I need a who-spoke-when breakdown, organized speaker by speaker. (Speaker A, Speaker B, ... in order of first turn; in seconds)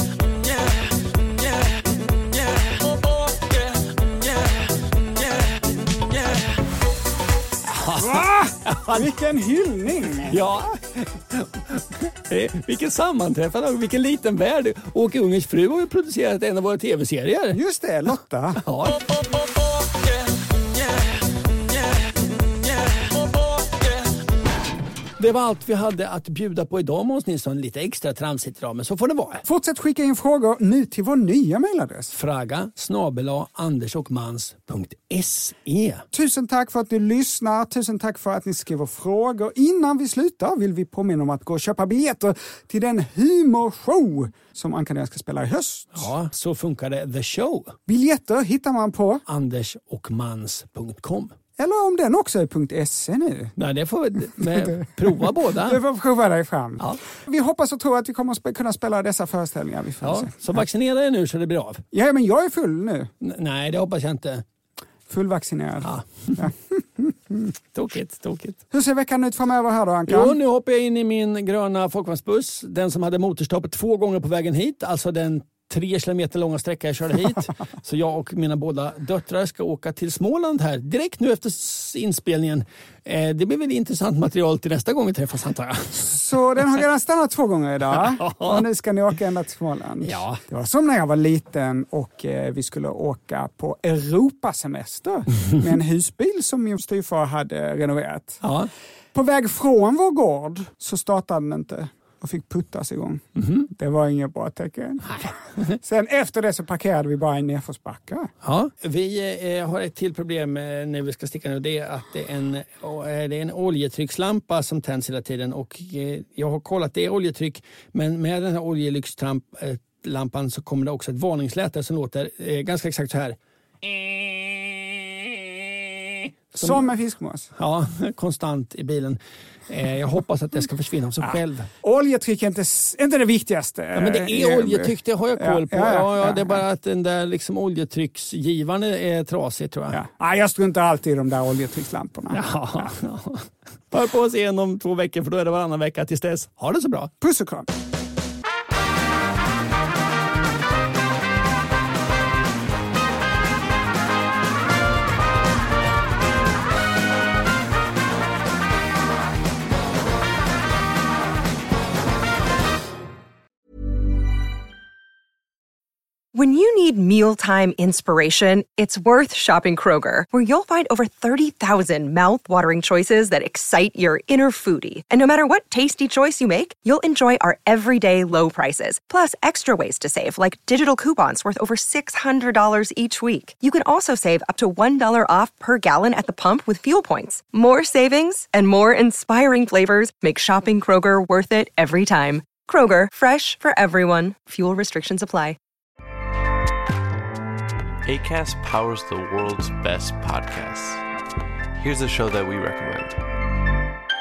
Speaker A: 6.1-6.4, 7.7-9.1, 10.3-17.6, 18.6-19.0, 25.2-29.4, 32.1-36.0, 45.9-47.8, 49.2-51.4, 53.6-55.8, 60.0-61.8, 63.2-64.4, 65.8-66.5, 67.7-68.6, 70.1-86.2, 87.9-88.6, 90.0-90.4, 98.4-98.7, 103.3-103.7, 105.0-105.8, 108.4-124.6, 126.5-126.9, 127.5-131.7, 133.9-140.0, 142.3-147.1
Speaker B: 8.0-10.4, 17.5-18.6, 29.4-32.1, 36.1-46.1, 47.9-49.2, 51.6-53.5, 54.4-60.5, 61.9-63.1, 65.1-67.5, 68.7-70.4, 86.1-98.4, 99.1-108.3, 126.5-127.5, 131.2-136.6, 139.9-142.9, 147.2-147.7
Speaker C: 166.3-195.6
Speaker D: 198.0-201.0, 201.8-203.2